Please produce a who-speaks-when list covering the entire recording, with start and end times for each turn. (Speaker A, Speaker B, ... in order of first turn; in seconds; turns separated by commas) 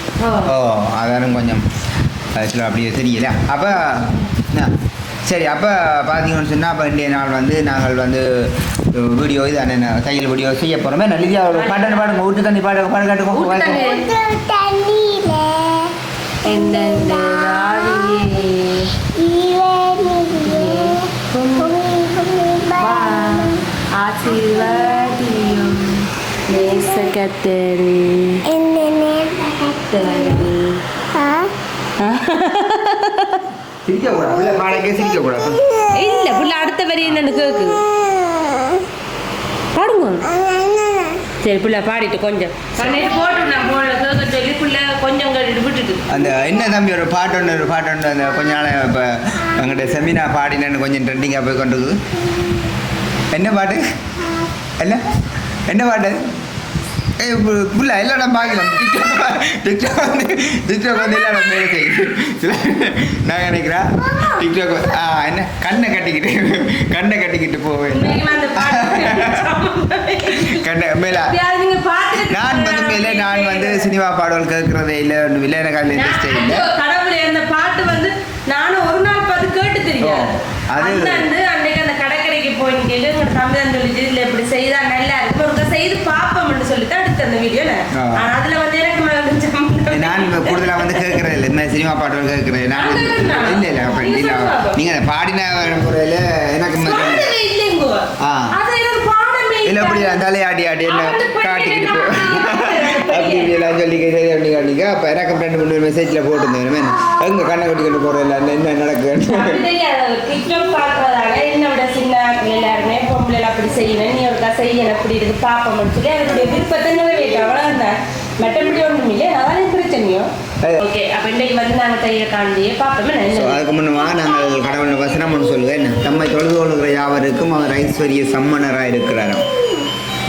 Speaker A: 0.2-0.5, Speaker B: 0.4-1.6, Speaker B: 2.3-4.7, Speaker B: 5.2-13.8, Speaker A: 11.5-12.2, Speaker A: 13.3-14.1, Speaker C: 13.7-15.9, Speaker A: 16.4-18.9, Speaker C: 16.5-18.4, Speaker C: 19.0-23.6, Speaker A: 20.4-21.7, Speaker A: 22.8-28.4, Speaker C: 24.4-25.1, Speaker C: 26.5-27.1, Speaker C: 28.5-30.5, Speaker A: 29.9-30.8, Speaker C: 31.1-31.5, Speaker A: 32.0-33.4, Speaker B: 33.8-35.6, Speaker C: 35.7-36.3, Speaker A: 35.9-37.8, Speaker C: 37.4-38.8, Speaker A: 39.7-40.3, Speaker C: 40.3-41.2, Speaker A: 41.4-46.2, Speaker C: 42.9-43.6, Speaker B: 46.1-52.0, Speaker B: 53.3-53.9, Speaker B: 54.8-55.1, Speaker B: 55.7-56.3, Speaker B: 57.2-69.4, Speaker A: 67.9-73.9, Speaker B: 70.3-71.3, Speaker B: 72.2-76.7, Speaker A: 75.9-91.2, Speaker B: 80.0-81.3, Speaker B: 87.9-88.3, Speaker B: 89.9-97.3, Speaker A: 92.7-94.8, Speaker A: 96.7-100.2, Speaker B: 98.2-98.6, Speaker B: 99.6-109.7, Speaker A: 100.8-103.6, Speaker A: 109.3-123.7, Speaker B: 123.3-129.4